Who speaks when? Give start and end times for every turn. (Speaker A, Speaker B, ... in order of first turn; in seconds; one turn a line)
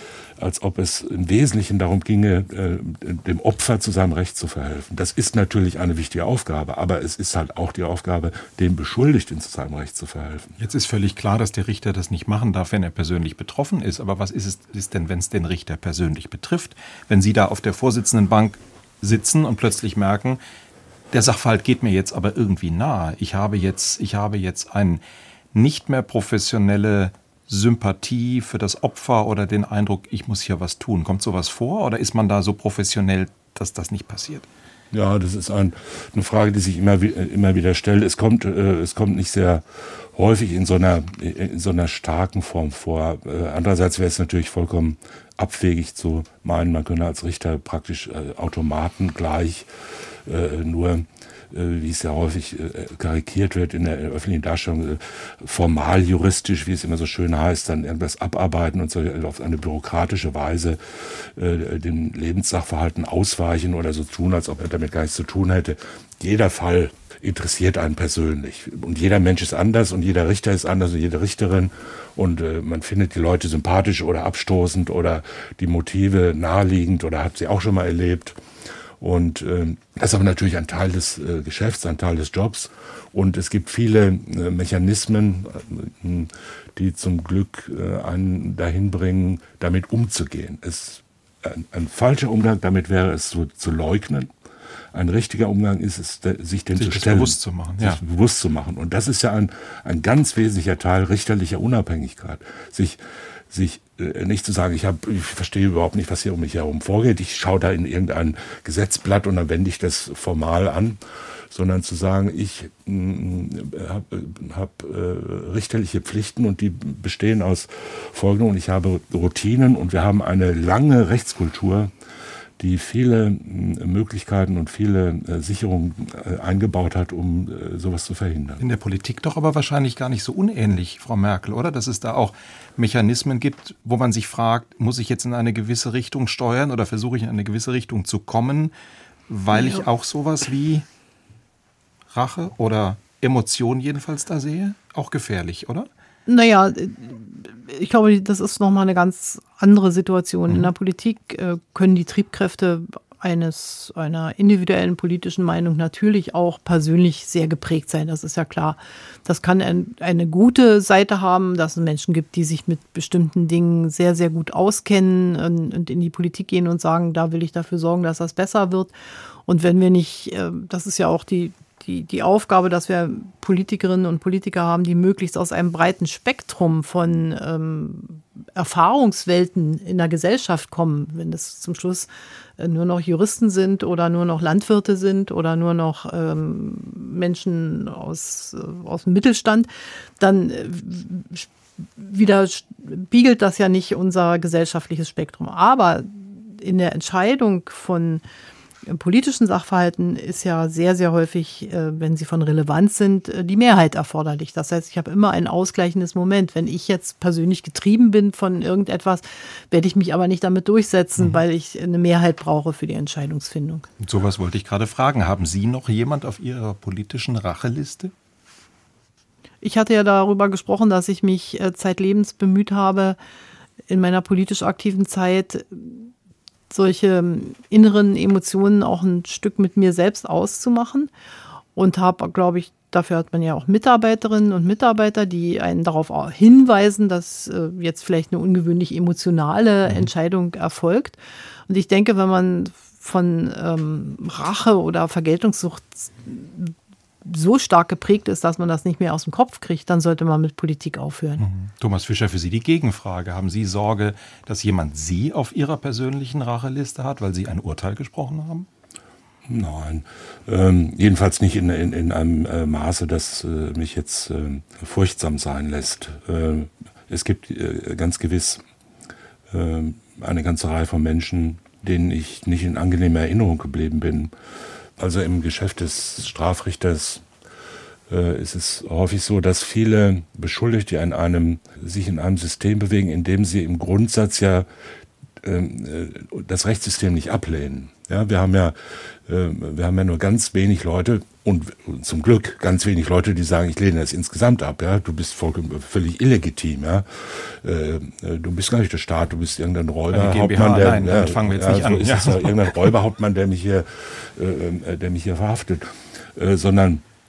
Speaker A: 0.4-10.6
Speaker B: 10.6-20.4
Speaker B: 21.1-25.0
Speaker B: 25.5-34.5
Speaker A: 34.9-49.7
Speaker A: 50.2-78.4
Speaker A: 79.0-94.3
Speaker A: 94.9-111.0
Speaker B: 96.7-98.0
Speaker A: 111.5-121.9
Speaker A: 122.6-128.6
Speaker B: 128.6-138.7
Speaker B: 139.3-140.8
Speaker C: 139.5-139.8
Speaker B: 142.1-145.9
Speaker C: 146.3-168.9
Speaker C: 169.4-198.2
Speaker C: 198.9-213.9
Speaker B: 214.0-218.1
Speaker C: 219.6-223.2
Speaker C: 223.9-226.1
Speaker C: 226.7-231.1
Speaker C: 231.7-246.7
Speaker C: 247.2-251.4
Speaker B: 251.4-258.7
Speaker A: 259.5-268.6
Speaker A: 269.5-274.3
Speaker A: 275.0-277.2
Speaker A: 278.1-284.7
Speaker A: 285.4-307.0
Speaker B: 300.1-302.9